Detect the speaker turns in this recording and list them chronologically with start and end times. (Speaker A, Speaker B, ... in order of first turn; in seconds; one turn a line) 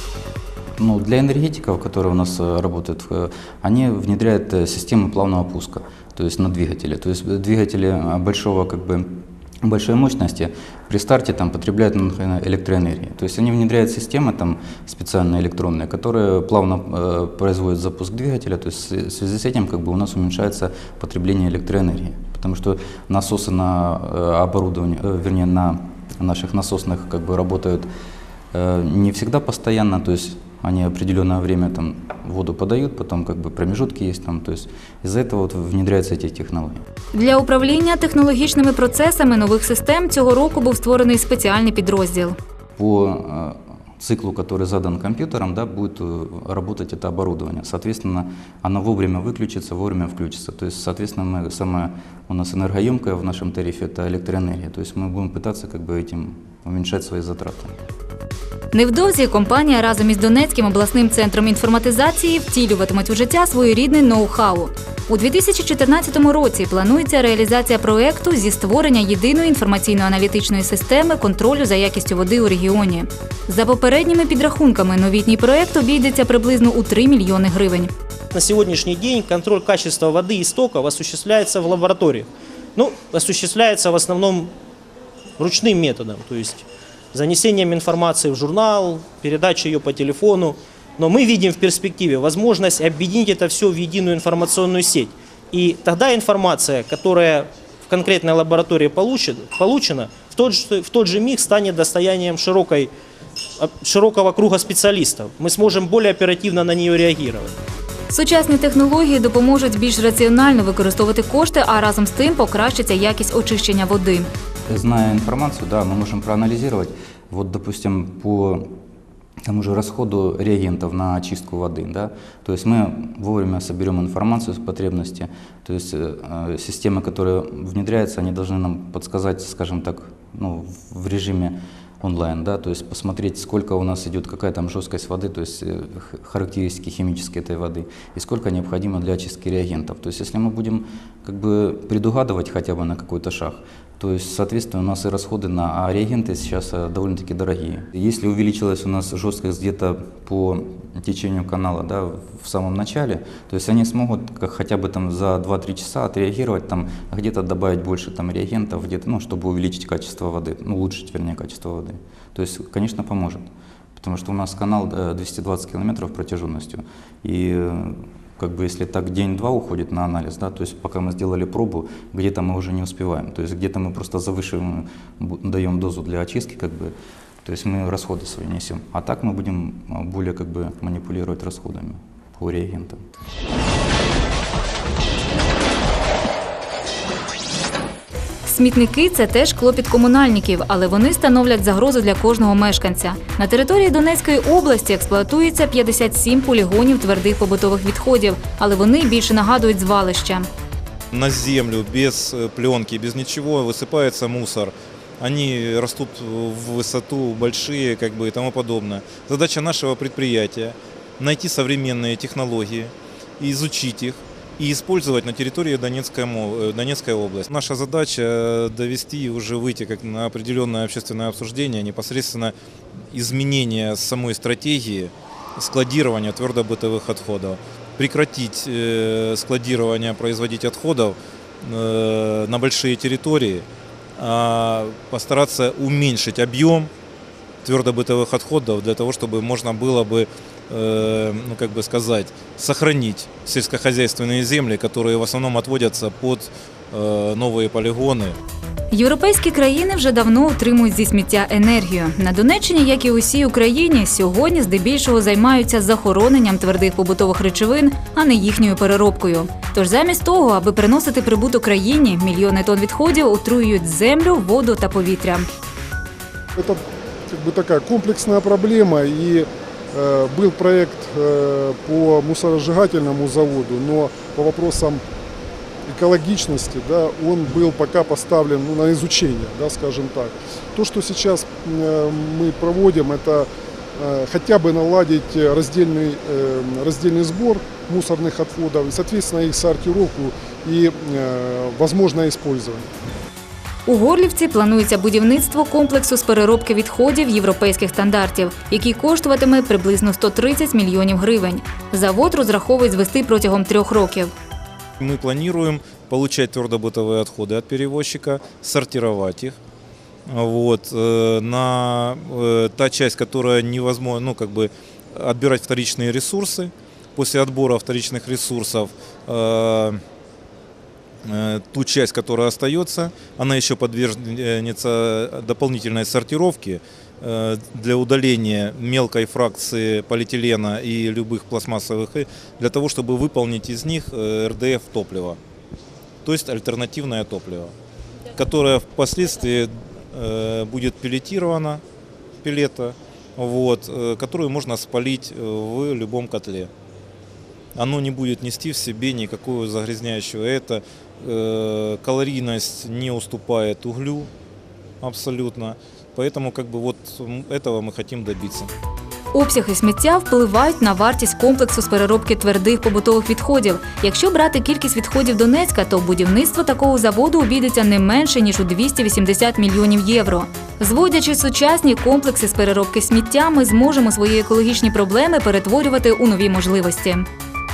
Speaker A: 0.8-27.9
Speaker A: 28.5-36.8
Speaker B: 37.1-42.4
Speaker A: 42.8-57.8
Speaker B: 58.7-77.9
Speaker C: 78.3-84.5
Speaker C: 85.4-102.9
Speaker C: 103.6-107.5
Speaker B: 108.1-114.3
Speaker A: 114.7-118.7
Speaker A: 119.5-183.0
Speaker B: 188.4-200.5
Speaker D: 201.1-222.6
Speaker D: 223.1-233.7
Speaker D: 234.2-236.9
Speaker D: 237.6-248.4
Speaker B: 248.9-265.5
Speaker E: 266.6-275.0
Speaker E: 275.9-292.9
Speaker B: 293.9-304.3
Speaker D: 305.0-309.6
Speaker D: 310.3-320.0
Speaker D: 321.2-335.4
Speaker D: 336.2-337.7
Speaker D: 338.3-341.8
Speaker D: 342.4-346.7
Speaker D: 347.7-354.3
Speaker D: 355.0-358.7
Speaker B: 359.3-377.3